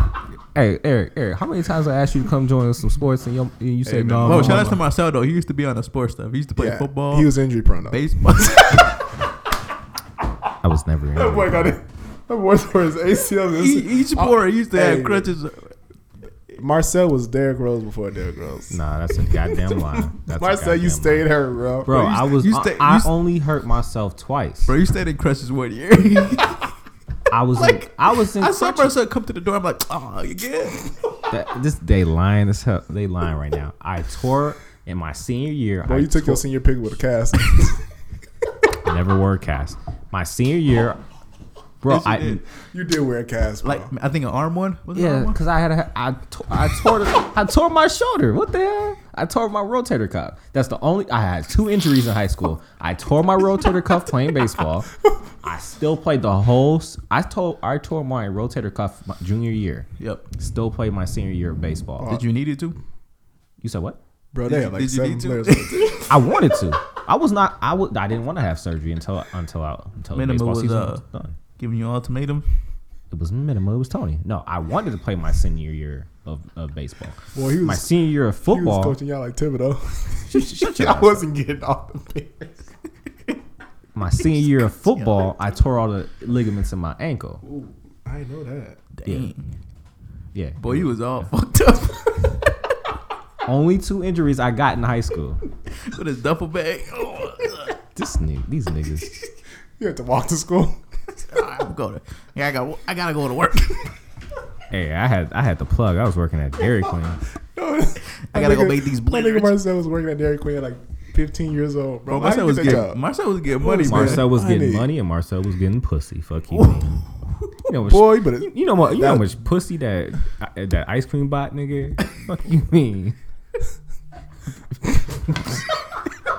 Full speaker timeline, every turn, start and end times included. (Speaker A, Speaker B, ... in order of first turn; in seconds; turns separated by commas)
Speaker A: 0.5-4.8, Speaker B: 3.8-4.8, Speaker C: 4.2-7.3, Speaker B: 6.6-9.0, Speaker C: 7.9-8.9, Speaker A: 10.6-11.7, Speaker B: 11.2-15.3, Speaker C: 13.6-15.8, Speaker B: 16.6-18.8, Speaker A: 18.7-21.3, Speaker B: 19.5-22.1, Speaker A: 21.9-24.7, Speaker C: 21.9-23.1, Speaker C: 24.7-26.8, Speaker A: 27.3-29.0, Speaker C: 27.6-30.9, Speaker A: 31.3-36.4, Speaker B: 35.9-37.9, Speaker A: 38.8-41.0, Speaker A: 41.8-42.4, Speaker C: 41.9-42.4, Speaker B: 42.6-43.9, Speaker C: 43.6-45.4, Speaker A: 44.9-62.2, Speaker C: 60.0-60.3, Speaker C: 62.0-62.8, Speaker A: 63.6-64.0, Speaker B: 64.3-66.0, Speaker C: 64.5-66.6, Speaker A: 66.1-71.4, Speaker C: 70.1-71.0, Speaker C: 71.6-72.5, Speaker A: 73.1-79.0, Speaker B: 77.3-82.6, Speaker A: 80.3-81.3, Speaker A: 84.0-87.4, Speaker C: 84.9-85.3, Speaker B: 87.4-88.8, Speaker C: 89.0-89.6, Speaker A: 89.1-89.3, Speaker A: 90.3-91.3, Speaker C: 90.6-92.5, Speaker A: 93.5-95.4, Speaker C: 95.7-97.8, Speaker A: 98.0-99.2, Speaker B: 99.8-100.8, Speaker C: 101.3-104.0, Speaker A: 104.7-107.2, Speaker B: 107.5-114.9, Speaker C: 108.1-109.6, Speaker C: 112.1-114.3, Speaker A: 113.9-117.1, Speaker A: 117.7-123.2, Speaker B: 117.7-119.3, Speaker A: 125.2-125.6